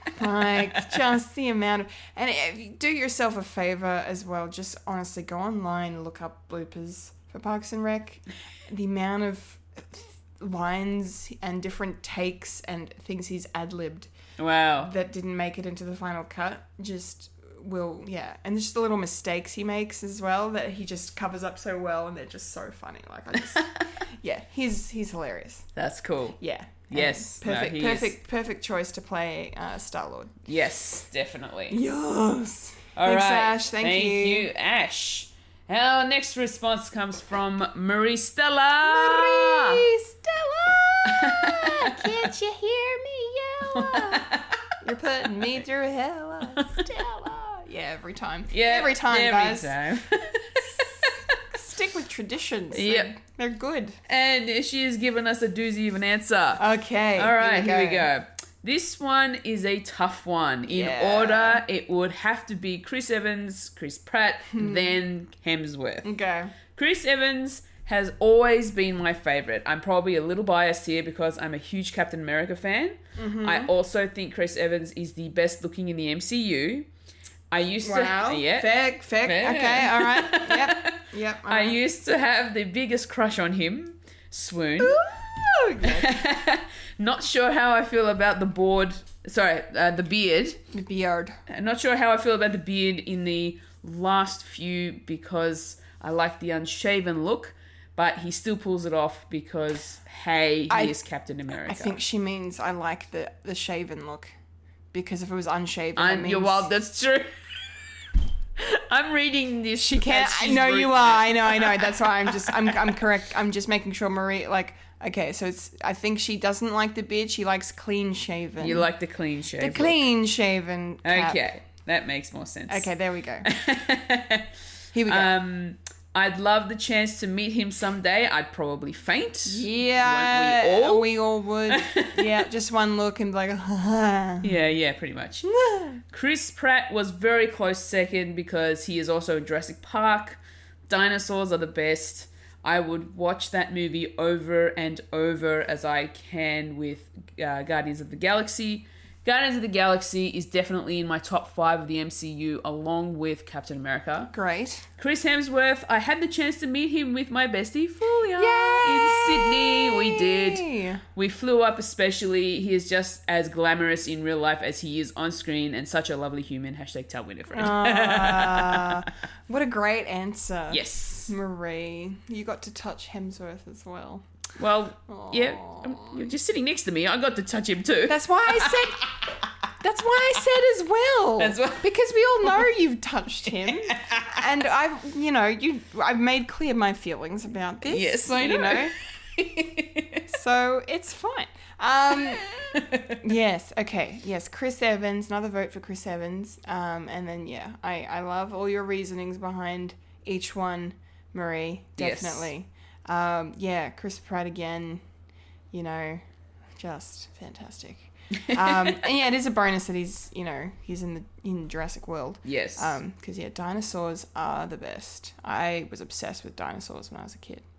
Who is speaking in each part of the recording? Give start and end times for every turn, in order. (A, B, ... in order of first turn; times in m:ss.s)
0:00.1-0:14.1 A
0:14.4-0:14.9 B
0:14.8-0:25.7 A
0:23.4-0:23.8 B
0:25.8-0:26.4 B
0:26.4-0:30.5 A
0:26.9-0:28.2 B
0:30.5-0:31.8 B
0:31.7-0:34.5 A
0:33.0-0:39.8 B
0:38.8-0:44.3 A
0:41.1-0:42.3 B
0:43.7-0:44.6 B
0:44.8-0:54.0 A
0:46.6-0:46.8 B
0:48.5-0:51.4 B
0:52.7-0:53.1 B
0:54.1-0:56.6 B
0:56.6-0:58.1 A
0:57.2-1:06.1 B
1:00.7-1:01.6 A
1:04.5-1:05.0 A
1:06.0-1:06.6 A
1:06.7-1:16.9 B
1:13.2-1:13.7 A
1:17.5-1:25.0 B
1:17.8-1:21.8 A
1:24.8-1:26.2 A
1:25.8-1:30.6 B
1:30.7-1:31.4 A
1:31.5-1:42.0 B
1:40.7-1:41.0 A
1:41.5-1:44.3 A
1:44.9-1:46.7 A
1:46.0-1:53.0 B
1:49.8-1:58.9 A
1:58.6-2:00.0 B
1:59.6-2:01.6 A
2:01.0-2:02.9 B
2:02.7-2:03.5 A
2:03.4-2:04.5 B
2:04.9-2:05.3 A
2:05.1-2:11.1 B
2:09.5-2:14.5 A
2:11.7-2:12.4 B
2:14.4-2:15.5 B
2:15.4-2:16.0 A
2:16.0-2:34.3 B
2:34.3-2:34.9 A
2:35.0-2:49.1 B
2:38.4-2:41.0 A
2:47.5-2:54.2 A
2:50.7-2:51.3 B
2:54.6-2:59.4 B
2:55.1-2:56.3 A
2:58.1-2:59.2 A
2:59.8-3:08.9 A
3:01.4-3:02.7 B
3:03.5-3:04.4 B
3:07.9-3:10.2 B
3:10.3-3:12.5 A
3:12.1-3:13.2 B
3:13.1-3:25.0 A
3:22.0-3:22.5 B
3:25.7-3:26.2 A
3:26.8-3:37.6 A
3:28.4-3:29.0 B
3:32.4-3:33.0 B